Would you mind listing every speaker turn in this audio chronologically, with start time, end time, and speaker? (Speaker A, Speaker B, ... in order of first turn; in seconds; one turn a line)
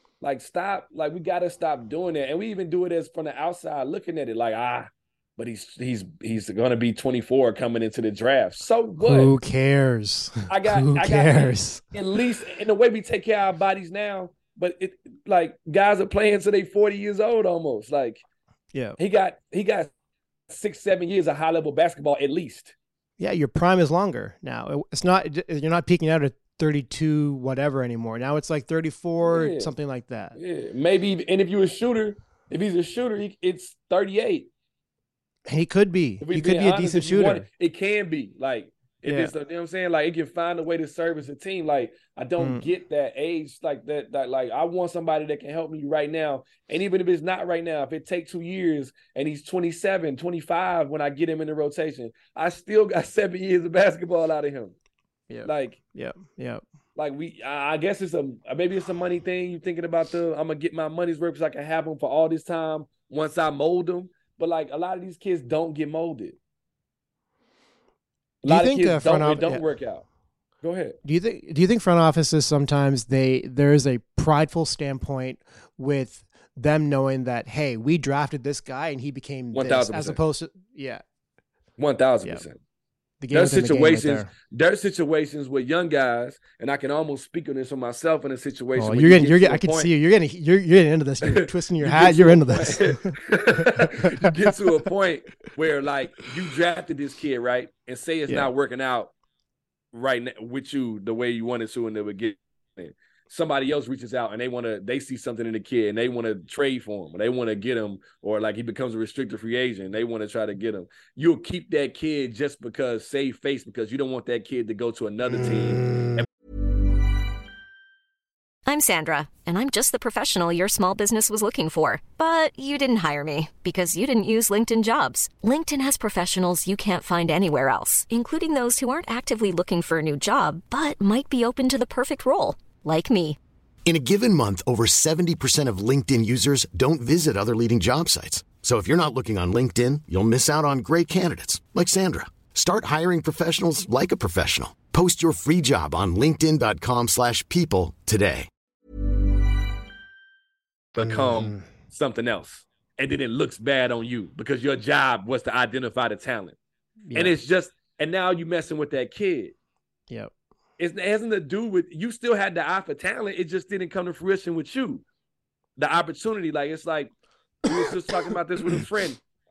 Speaker A: 0.2-9.3
Speaker B: 9.0-11.9
Speaker A: 10.5-18.2
Speaker B: 18.7-19.0
Speaker A: 19.0-19.9
Speaker A: 20.5-22.7
Speaker B: 23.2-30.4
Speaker A: 29.2-29.7
Speaker A: 30.3-34.5
Speaker B: 35.5-37.4
Speaker A: 36.2-54.7
Speaker B: 39.0-39.3
Speaker B: 42.4-42.6
Speaker B: 55.3-56.6
Speaker A: 55.4-55.8
Speaker A: 57.0-66.4
Speaker A: 68.4-70.0
Speaker B: 68.5-69.6
Speaker A: 70.6-71.0
Speaker B: 71.0-81.0
Speaker A: 79.5-80.2
Speaker A: 81.8-82.6
Speaker B: 83.2-84.3
Speaker A: 83.3-89.9
Speaker B: 88.8-93.2
Speaker A: 91.2-99.1
Speaker B: 94.0-94.5
Speaker A: 99.9-116.3
Speaker C: 118.7-133.4
Speaker D: 133.8-148.5
Speaker A: 150.9-156.6
Speaker B: 151.0-151.7
Speaker B: 157.0-157.3
Speaker A: 157.1-159.5
Speaker A: 160.8-165.0
Speaker A: 165.8-167.1
Speaker A: 167.6-169.2